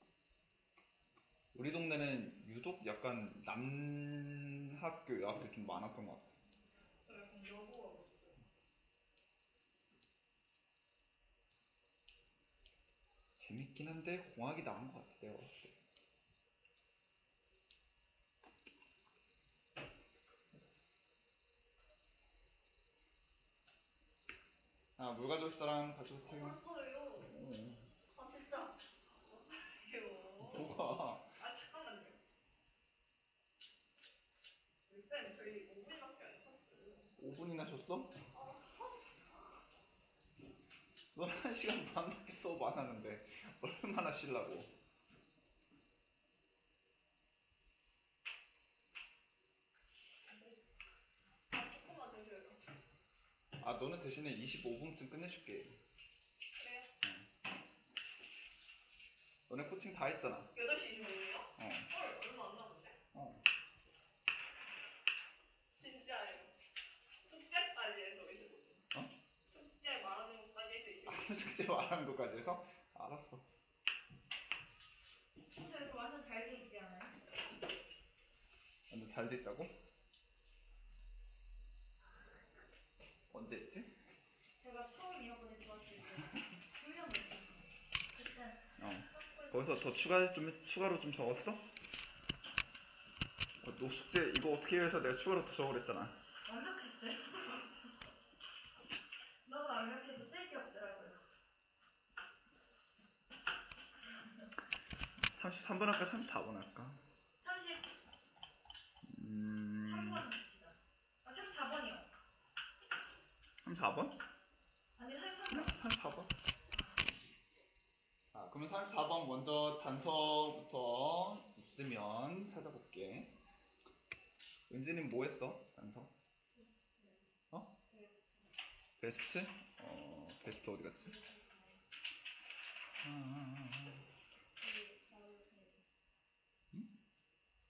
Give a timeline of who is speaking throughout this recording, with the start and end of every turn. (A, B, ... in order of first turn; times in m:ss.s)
0:01.5-0:06.3 A
0:07.1-0:08.4 B
0:13.4-0:15.8 A
0:25.0-0:26.6 A
0:26.2-0:27.4 B
0:27.3-0:27.9 A
0:28.1-0:32.2 B
0:30.4-0:31.4 A
0:34.9-0:37.1 B
0:37.2-0:38.2 A
0:38.3-0:39.0 B
0:41.1-0:44.7 A
0:50.3-0:50.6 B
0:51.5-0:52.6 B
0:53.6-0:55.8 A
0:56.6-0:56.9 B
0:57.0-0:57.3 A
0:59.5-1:00.5 A
1:00.5-1:03.0 B
1:01.6-1:01.9 A
1:03.1-1:03.4 A
1:05.8-1:06.5 B
1:07.2-1:08.9 B
1:09.5-1:11.4 B
1:11.1-1:13.5 A
1:15.5-1:17.2 C
1:18.9-1:19.8 A
1:23.3-1:23.9 A
1:24.6-1:29.7 C
1:28.8-1:31.6 A
1:33.6-1:36.2 A
1:36.4-1:37.9 C
1:39.4-1:41.2 C
1:45.4-1:47.0 A
1:47.4-1:47.9 C
1:49.0-1:50.3 A
1:49.8-1:52.1 C
1:53.6-1:54.2 A
1:55.0-1:56.0 C
1:55.5-1:56.3 A
1:56.7-1:57.1 C
1:58.3-2:03.3 A
2:04.7-2:06.1 A
2:09.0-2:11.2 A
2:11.0-2:11.8 C
2:13.0-2:14.0 A
2:14.6-2:15.8 B